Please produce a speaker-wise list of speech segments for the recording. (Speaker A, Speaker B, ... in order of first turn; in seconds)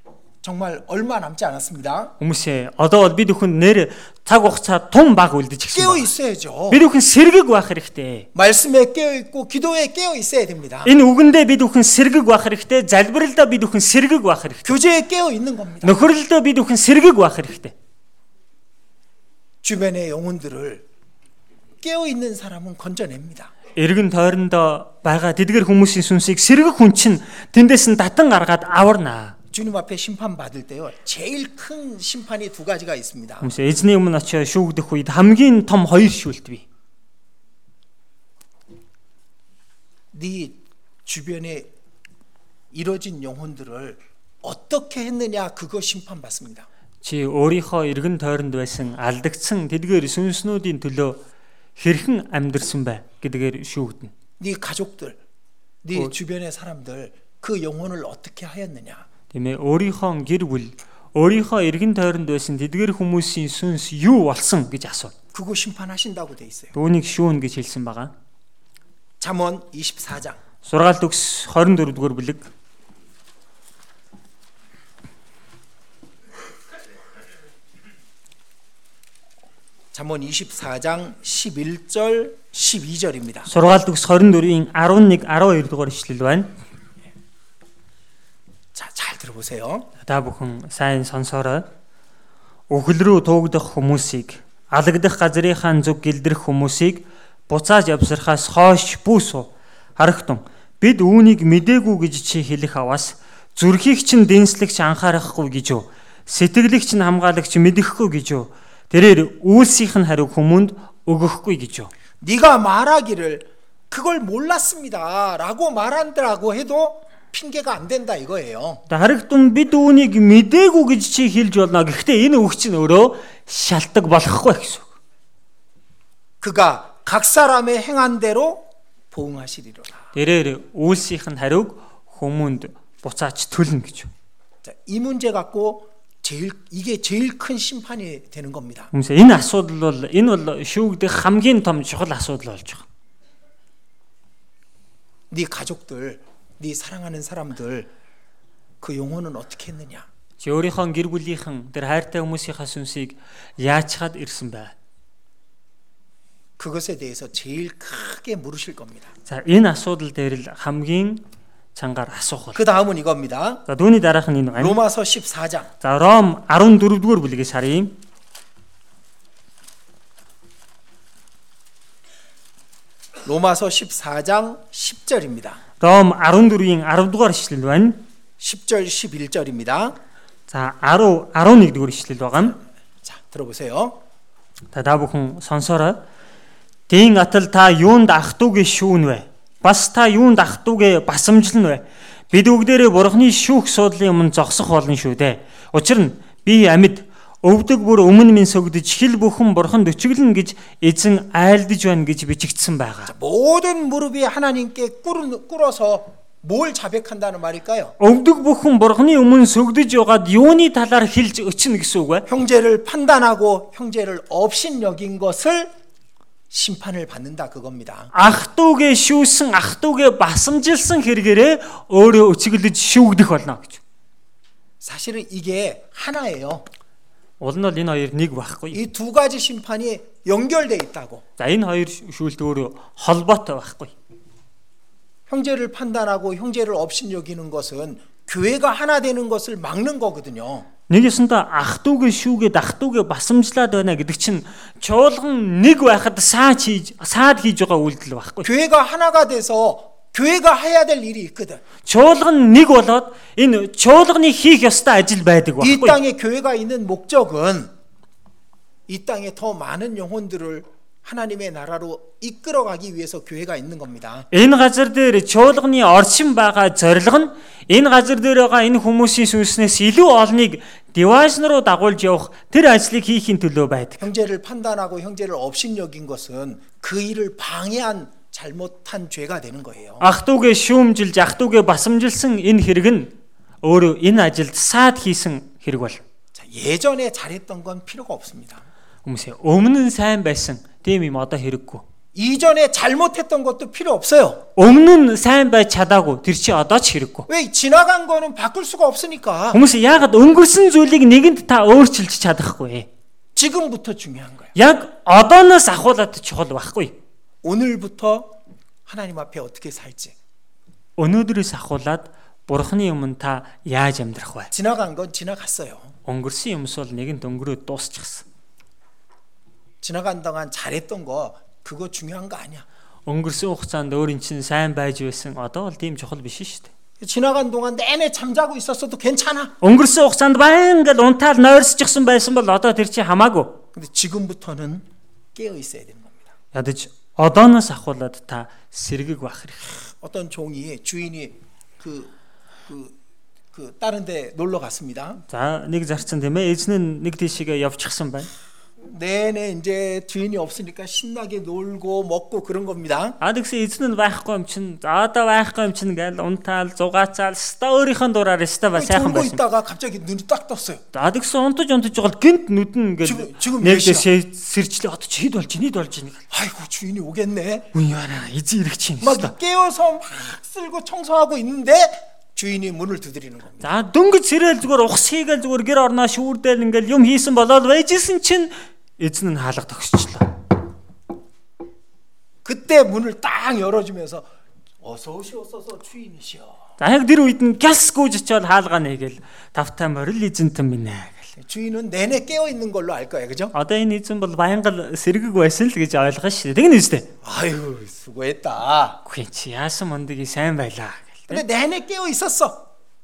Speaker A: 0.4-2.1, 5.7-6.8, 8.3-10.9, 14.7-16.0, 19.6-20.9, 21.8-23.5, 29.5-33.5, 40.1-41.7, 42.7-46.7, 54.4-55.2, 55.8-59.1, 65.3-66.8, 69.2-70.4, 79.9-83.5, 88.8-89.9, 112.2-118.8, 126.4-130.1, 134.6-138.9, 145.3-147.9, 148.8-150.1, 156.6-159.1, 162.6-163.6, 164.6-165.7, 173.2-175.6, 178.4-180.0, 183.0-184.0, 203.1-208.0, 212.3-215.7, 216.5-218.1, 224.8-226.7, 228.7-231.2, 235.3-240.7, 248.4-251.6, 255.6-257.7, 258.9-264.3, 274.0-280.1, 286.3-288.6, 292.1-294.5, 297.3-299.6, 303.4-304.5, 307.4-310.2, 314.5-315.9, 319.8-322.7, 327.0-329.5, 333.7-336.3, 340.0-342.1, 342.7-342.9, 343.5-345.2, 348.8-353.2, 358.8-360.8, 363.0-364.1, 366.3-367.7, 369.0-373.7, 382.4-384.3, 384.8-386.6, 391.4-393.5, 397.2-399.0, 401.3-402.7
Speaker B: 2.2-6.1, 6.7-8.3, 10.8-14.8, 15.8-17.7, 23.8-29.4, 33.4-36.6, 47.0-51.2, 51.8-54.1, 59.3-65.1, 66.8-68.1, 70.6-72.5, 83.5-86.5, 90.0-91.7, 92.7-111.9, 118.9-124.9, 130.2-134.1, 138.9-142.8, 150.4-154.7, 159.3-161.2, 161.8-162.6, 163.7-164.8, 165.8-168.0, 175.8-178.0, 180.5-182.6, 184.7-186.0, 186.9-203.1, 208.0-212.3, 218.1-223.8, 227.4-228.8, 231.4-233.9, 240.9-248.5, 251.8-256.0, 264.3-274.1, 280.0-286.0, 289.1-291.8, 294.6-297.3, 299.5-302.9, 304.6-306.9, 311.0-314.5, 316.1-318.2, 323.1-326.7, 329.6-333.6, 336.5-339.7, 345.3-348.3, 353.2-359.4, 360.9-366.2, 367.7-369.3, 373.6-380.3, 386.8-391.3, 393.5-397.1, 399.1-401.4